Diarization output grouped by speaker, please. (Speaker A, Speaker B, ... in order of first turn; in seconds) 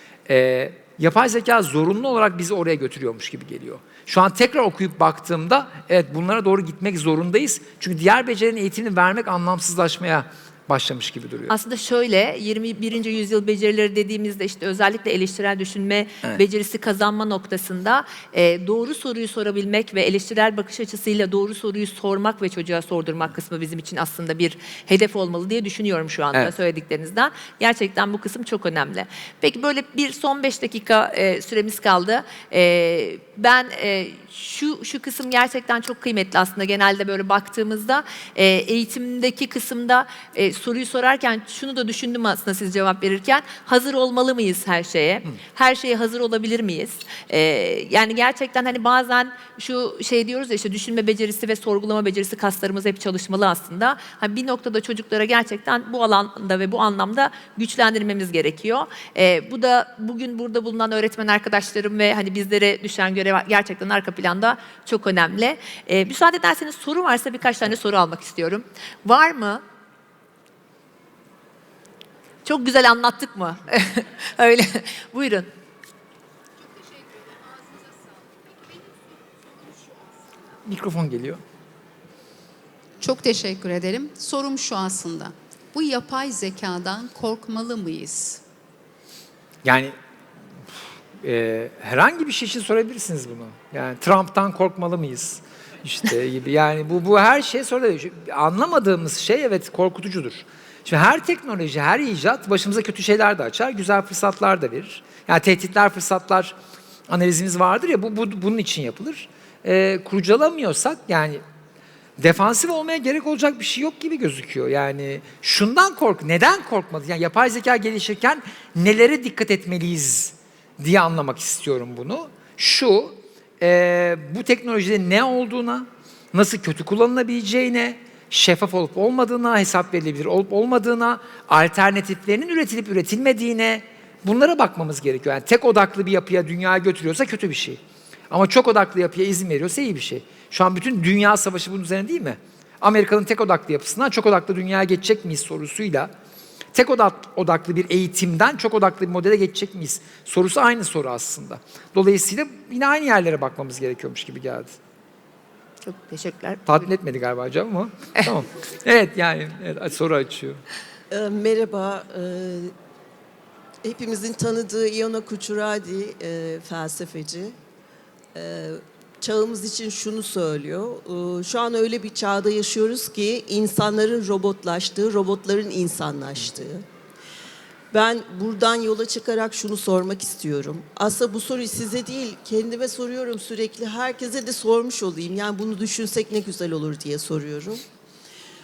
Speaker A: 0.3-11.5, 80.6-81.4, 89.6-89.9, 91.2-106.5, 107.1-111.4, 112.2-146.1, 146.7-154.8, 156.7-160.6
Speaker B: 11.5-69.6, 72.4-75.5, 155.8-156.9
Speaker C: 83.0-88.4
Speaker D: 161.1-162.7, 163.8-167.5, 168.3-176.8, 177.9-187.8